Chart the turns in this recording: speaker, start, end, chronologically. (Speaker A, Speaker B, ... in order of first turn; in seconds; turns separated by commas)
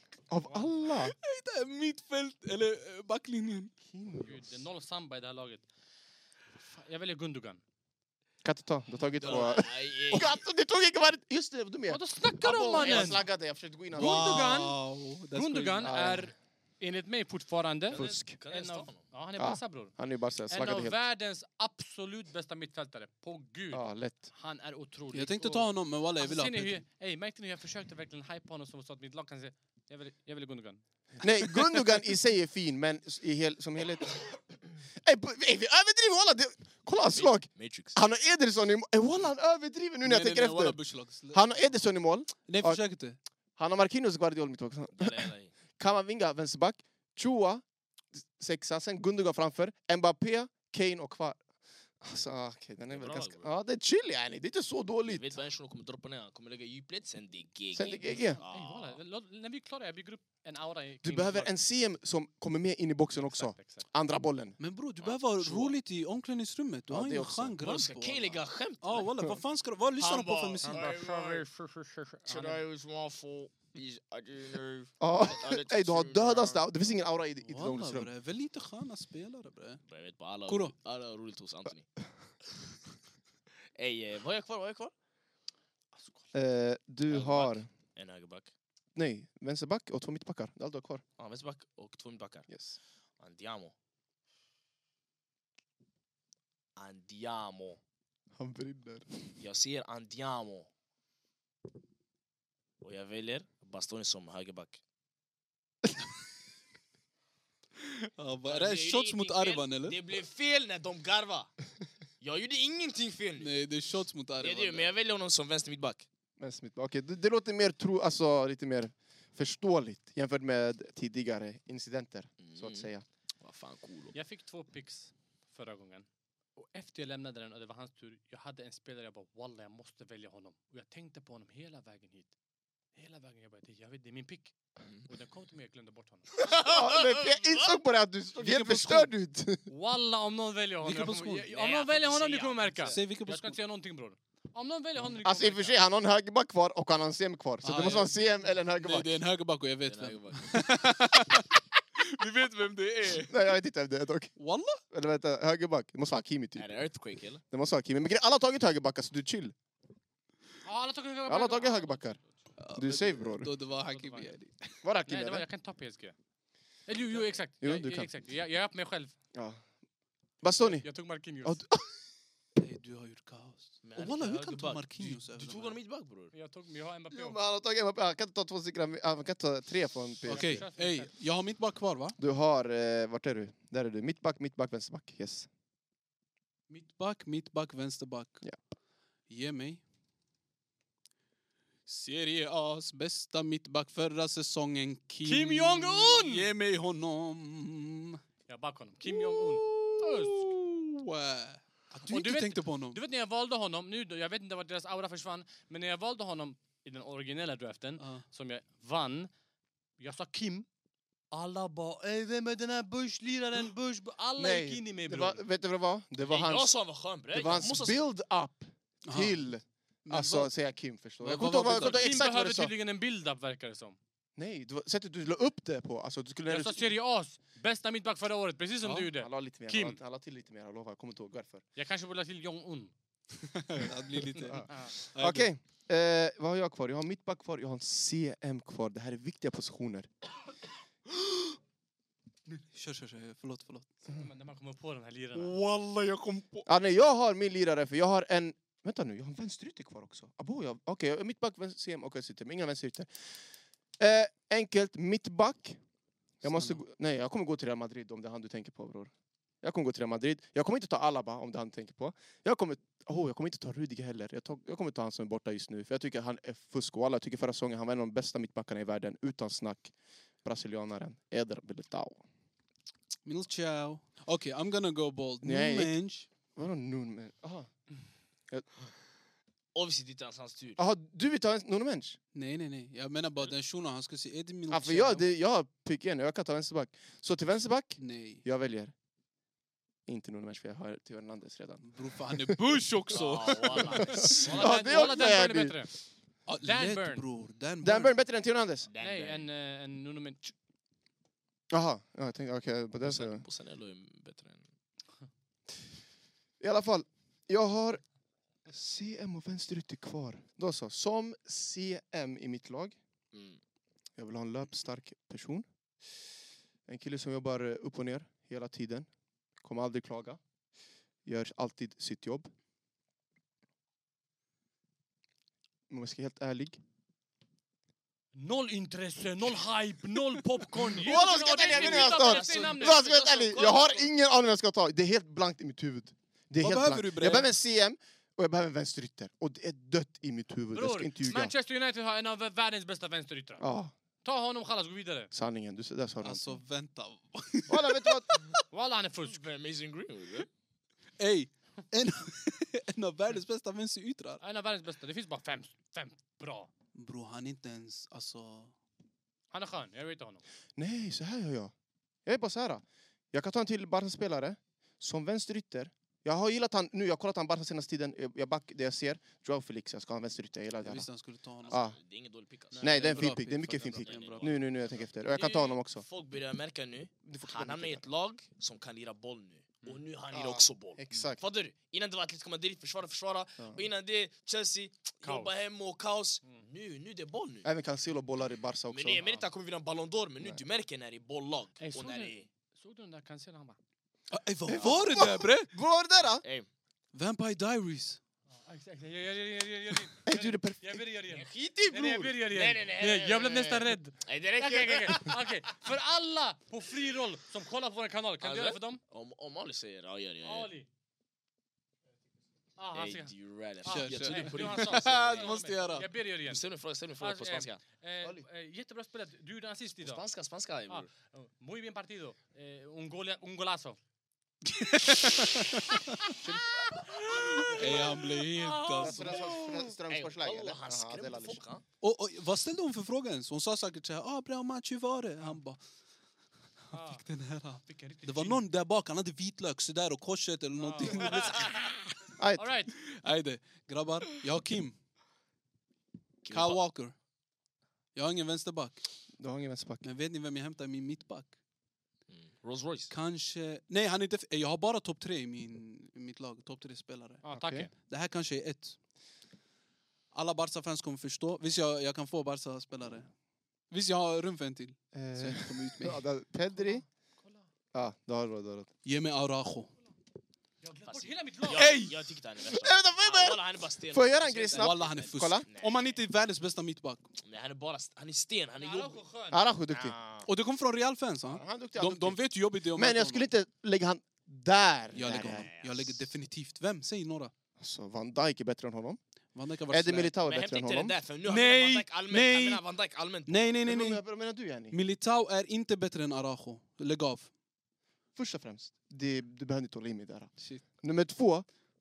Speaker A: 0.3-1.1, Speaker B: 0.9-3.7, Speaker A: 3.9-4.6, Speaker C: 4.2-5.6, Speaker C: 6.6-7.6, Speaker A: 8.4-14.5, Speaker D: 9.2-10.4, Speaker C: 11.9-13.2, Speaker B: 13.9-16.0, Speaker C: 13.9-14.8, Speaker C: 15.3-19.9, Speaker A: 15.8-16.3, Speaker D: 17.9-19.1, Speaker A: 17.9-18.4, Speaker A: 19.4-21.0, Speaker C: 20.5-30.8, Speaker A: 23.7-24.3, Speaker B: 25.1-26.8, Speaker A: 31.2-34.4, Speaker A: 35.0-42.8, Speaker D: 37.1-38.0, Speaker B: 40.0-41.4, Speaker B: 42.5-43.2, Speaker A: 43.6-47.6, Speaker D: 45.0-45.5, Speaker A: 48.4-51.4, Speaker A: 52.0-55.4, Speaker D: 52.9-53.5, Speaker D: 55.0-59.0, Speaker A: 57.7-58.4, Speaker C: 58.4-61.5, Speaker A: 61.0-64.6, Speaker C: 63.2-63.9, Speaker B: 64.6-70.9, Speaker D: 65.0-65.8, Speaker A: 66.9-67.6, Speaker D: 67.6-69.1, Speaker D: 70.0-71.5, Speaker C: 70.6-72.6, Speaker D: 72.3-76.7, Speaker A: 75.0-78.1, Speaker B: 77.5-79.8, Speaker D: 79.9-81.9, Speaker B: 80.5-80.7, Speaker D: 83.8-84.9, Speaker C: 85.9-86.3, Speaker A: 86.3-87.7, Speaker D: 87.1-88.5, Speaker A: 89.0-91.0, Speaker D: 91.2-92.5, Speaker A: 92.5-92.8, Speaker D: 93.2-93.8, Speaker D: 96.8-97.8, Speaker A: 98.4-99.3, Speaker D: 99.4-100.7, Speaker D: 102.8-104.8, Speaker B: 107.8-110.0, Speaker D: 108.5-111.5, Speaker D: 112.2-113.5, Speaker B: 113.4-115.0, Speaker D: 114.4-116.0, Speaker A: 116.4-123.0, Speaker D: 122.4-122.9, Speaker D: 123.4-124.2, Speaker C: 124.1-126.1, Speaker C: 126.6-132.3, Speaker C: 132.9-134.5, Speaker C: 135.1-136.3, Speaker A: 136.4-139.7, Speaker D: 136.4-137.8, Speaker B: 138.4-139.1, Speaker C: 139.7-145.8, Speaker B: 140.8-141.5, Speaker D: 141.4-143.0, Speaker B: 142.8-143.6, Speaker A: 145.2-149.2, Speaker B: 147.6-153.4, Speaker D: 149.9-150.7, Speaker A: 153.3-154.3, Speaker B: 154.4-154.8, Speaker A: 154.9-156.8, Speaker D: 156.6-157.4, Speaker A: 157.5-159.5, Speaker C: 160.6-162.3, Speaker A: 161.3-162.2, Speaker B: 162.6-164.8, Speaker A: 162.8-163.5, Speaker C: 163.9-164.3, Speaker A: 164.8-165.5, Speaker C: 165.1-166.2, Speaker C: 166.9-169.1, Speaker A: 167.6-168.1, Speaker A: 169.3-169.6, Speaker A: 170.4-170.9, Speaker C: 170.6-171.6, Speaker A: 171.4-171.9, Speaker B: 172.6-175.8, Speaker D: 173.8-176.3, Speaker C: 176.3-177.4, Speaker A: 177.1-180.6, Speaker C: 180.3-181.1, Speaker B: 180.3-182.2, Speaker A: 182.2-185.5, Speaker B: 186.8-188.4, Speaker B: 189.3-189.8, Speaker B: 191.9-198.2, Speaker C: 195.2-196.5, Speaker C: 198.5-200.5, Speaker B: 199.1-203.0, Speaker C: 202.1-209.3, Speaker B: 208.0-208.2, Speaker C: 210.0-210.7, Speaker C: 211.3-215.4, Speaker A: 214.4-216.8, Speaker D: 216.3-218.0, Speaker A: 217.3-222.7, Speaker B: 219.1-219.4, Speaker B: 220.1-220.5, Speaker B: 221.2-222.1, Speaker C: 221.8-224.0, Speaker A: 224.4-226.9, Speaker C: 226.5-230.0, Speaker A: 228.8-231.6, Speaker C: 231.8-232.9, Speaker B: 233.4-235.5, Speaker A: 234.5-240.1, Speaker C: 234.5-234.9, Speaker B: 242.5-244.0, Speaker C: 244.1-245.5, Speaker B: 245.3-246.7, Speaker A: 246.7-253.1, Speaker A: 254.0-255.8, Speaker A: 256.4-269.9, Speaker B: 256.4-256.8, Speaker A: 270.4-272.2, Speaker B: 273.2-276.3, Speaker A: 275.4-275.9, Speaker A: 276.6-277.7, Speaker D: 279.7-280.8, Speaker A: 280.8-282.2, Speaker B: 282.3-285.3, Speaker A: 284.7-288.9, Speaker B: 288.0-288.4, Speaker A: 290.1-292.6, Speaker B: 291.8-294.6, Speaker D: 293.1-295.2, Speaker A: 294.0-295.8, Speaker C: 294.3-295.9, Speaker B: 296.5-298.1, Speaker C: 296.6-297.2, Speaker A: 297.8-298.9, Speaker D: 298.9-299.4, Speaker C: 299.0-300.5, Speaker A: 301.7-303.4, Speaker D: 303.0-304.6, Speaker A: 306.6-308.0, Speaker A: 308.7-313.0, Speaker D: 313.3-313.6, Speaker A: 314.2-315.7, Speaker A: 316.9-319.1, Speaker A: 319.6-320.4, Speaker A: 321.2-322.5, Speaker A: 325.9-326.8, Speaker C: 328.4-333.1, Speaker A: 331.0-341.5, Speaker D: 331.0-334.1, Speaker B: 336.6-337.5, Speaker C: 340.7-343.6, Speaker A: 343.6-343.9, Speaker C: 344.2-345.3, Speaker A: 345.3-346.5, Speaker B: 346.2-348.6, Speaker A: 347.7-348.3, Speaker C: 348.7-349.4, Speaker D: 349.2-350.5, Speaker B: 351.2-354.4, Speaker C: 354.4-356.7, Speaker B: 356.9-358.7, Speaker C: 359.5-360.4, Speaker A: 360.8-361.7, Speaker A: 362.3-371.1, Speaker B: 370.8-371.8, Speaker D: 371.6-374.7, Speaker A: 371.7-372.0, Speaker A: 372.8-376.1, Speaker B: 372.8-374.7, Speaker D: 375.2-387.7, Speaker A: 377.2-378.1, Speaker A: 380.3-381.4, Speaker C: 385.2-385.5, Speaker A: 387.6-389.2, Speaker D: 388.9-392.5, Speaker C: 389.2-389.5, Speaker C: 391.8-393.8, Speaker B: 394.3-395.7, Speaker A: 394.7-396.4, Speaker D: 396.4-396.7, Speaker B: 397.1-398.2, Speaker C: 398.6-409.0, Speaker A: 400.3-401.0, Speaker D: 401.3-405.4, Speaker D: 408.4-410.7, Speaker C: 410.4-410.9, Speaker C: 412.8-413.3, Speaker D: 412.9-415.6, Speaker C: 413.8-416.7, Speaker B: 413.9-416.1, Speaker D: 416.5-418.4, Speaker C: 417.2-420.2, Speaker D: 420.0-421.1, Speaker C: 420.9-424.0, Speaker B: 424.6-426.3, Speaker C: 427.2-429.6, Speaker B: 427.3-429.6, Speaker A: 429.0-431.6, Speaker D: 430.1-431.8, Speaker B: 432.0-435.8, Speaker C: 436.9-437.2, Speaker B: 436.9-442.0, Speaker C: 437.9-438.6, Speaker C: 440.8-441.7, Speaker D: 441.3-441.6, Speaker A: 442.4-442.7, Speaker C: 442.6-443.0, Speaker B: 443.0-445.0, Speaker D: 446.4-446.8, Speaker B: 446.5-447.1, Speaker B: 448.1-449.0, Speaker A: 449.4-450.1, Speaker B: 450.0-451.6, Speaker D: 452.3-453.1, Speaker B: 453.1-459.0, Speaker C: 457.4-457.9, Speaker A: 457.5-457.9, Speaker B: 460.3-463.3, Speaker B: 463.9-466.2, Speaker A: 465.1-467.0, Speaker C: 466.8-467.6, Speaker A: 467.9-468.9, Speaker B: 469.1-469.9, Speaker C: 470.8-472.0, Speaker D: 471.0-476.2, Speaker B: 471.7-472.2, Speaker A: 472.7-475.7, Speaker B: 474.8-477.3, Speaker D: 477.4-479.2, Speaker C: 478.8-479.6, Speaker A: 479.5-480.1, Speaker D: 479.9-480.5, Speaker B: 480.4-483.5, Speaker A: 481.5-485.7, Speaker B: 485.1-487.5, Speaker D: 485.4-486.2, Speaker A: 487.8-489.2, Speaker B: 489.6-490.4, Speaker A: 489.9-491.2, Speaker D: 490.4-493.7, Speaker B: 491.4-492.8, Speaker B: 493.5-494.2, Speaker A: 493.8-495.0, Speaker B: 494.9-497.5, Speaker A: 498.4-501.7, Speaker B: 500.6-500.8